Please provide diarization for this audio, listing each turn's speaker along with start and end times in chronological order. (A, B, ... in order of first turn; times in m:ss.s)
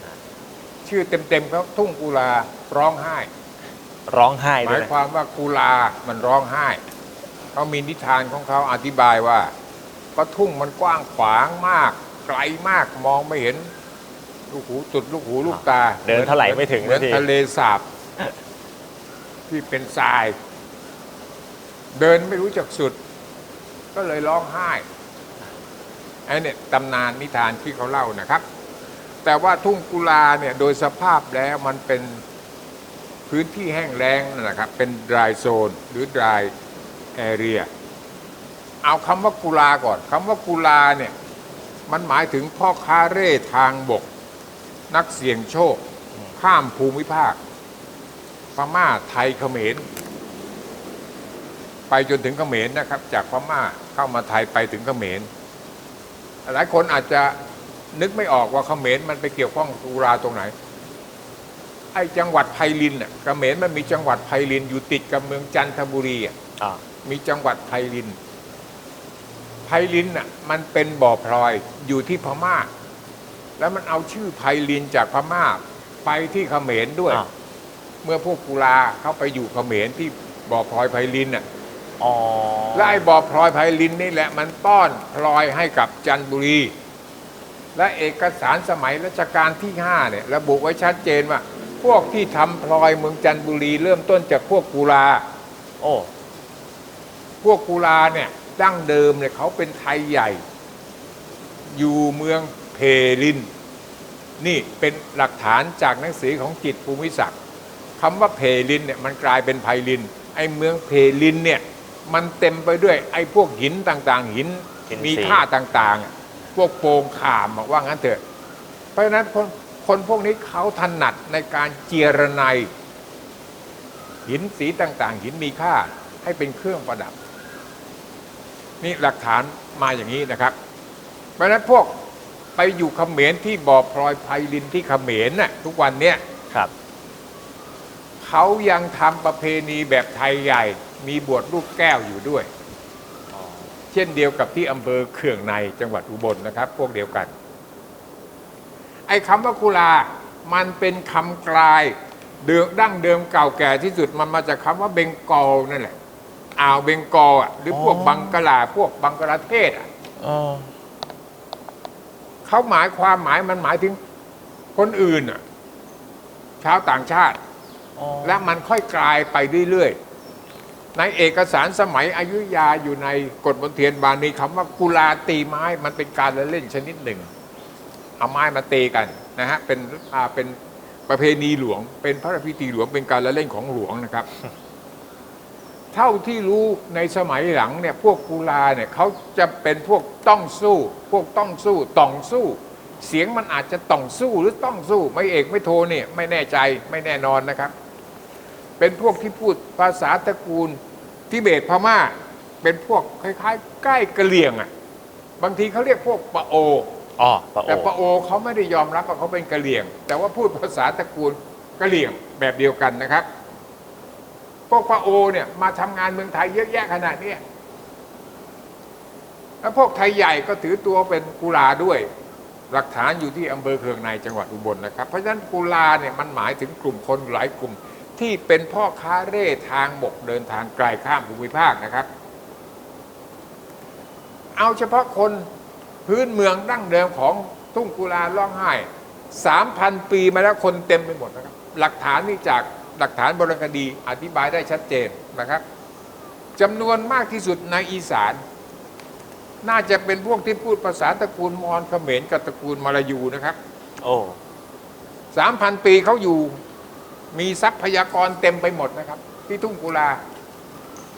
0:00.8-0:03.3 A
0:04.1-0:04.9 B
0:04.6-0:06.8 A
0:07.5-0:09.5 A
0:10.2-0:13.7 A
0:14.5-0:17.8 A
0:15.5-0:17.3 B
0:19.5-0:20.4 A
0:22.0-0:23.0 A
0:23.9-0:24.8 A
0:26.3-0:28.4 A
0:29.2-0:32.2 A
0:33.3-0:36.5 A
0:37.2-0:37.7 A
0:38.8-0:41.1 A
0:41.9-0:44.1 A
0:44.9-0:45.8 A
0:46.4-0:47.4 A
0:48.5-0:49.8 A
0:51.9-0:55.3 A
0:56.4-0:57.4 A
0:57.9-1:00.5 A
1:01.9-1:06.3 A
1:07.0-1:08.2 A
1:09.7-1:12.7 A
1:13.6-1:17.2 A
1:18.0-1:21.4 A
1:22.0-1:23.0 B
1:22.7-1:26.7 A
1:27.8-1:35.2 A
1:35.8-1:36.1 B
1:37.4-1:40.4 A
1:41.7-1:43.5 A
1:44.4-1:47.4 A
1:48.0-1:58.2 A
1:54.9-1:55.4 B
1:59.0-2:02.7 A
2:04.3-2:07.2 A
2:08.8-2:10.6 A
2:11.4-2:11.9 A
2:12.6-2:16.2 A
2:18.2-2:22.5 A
2:23.3-2:23.7 B
2:23.9-2:27.3 A
2:29.1-2:36.0 A
2:36.6-2:39.9 A
2:37.7-2:38.4 B
2:40.2-2:40.7 B
2:42.4-2:44.0 A
2:44.8-2:45.4 A
2:46.6-2:47.4 A
2:48.0-2:48.4 B
2:48.2-2:50.0 A
2:51.0-2:57.3 A
2:58.2-3:00.6 A
3:01.1-3:04.3 A
3:05.9-3:17.7 A
3:18.8-3:20.8 A
3:21.3-3:24.7 A
3:25.4-3:26.9 A
3:27.2-3:27.9 B
3:27.7-3:33.3 A
3:34.7-3:37.4 A
3:39.6-3:42.1 A
3:42.7-3:52.1 A
3:54.6-3:55.5 A
3:56.1-4:05.6 A
4:06.6-4:08.4 A
4:09.6-4:13.6 A
4:14.0-4:14.4 B
4:15.3-4:16.6 A
4:17.3-4:20.2 A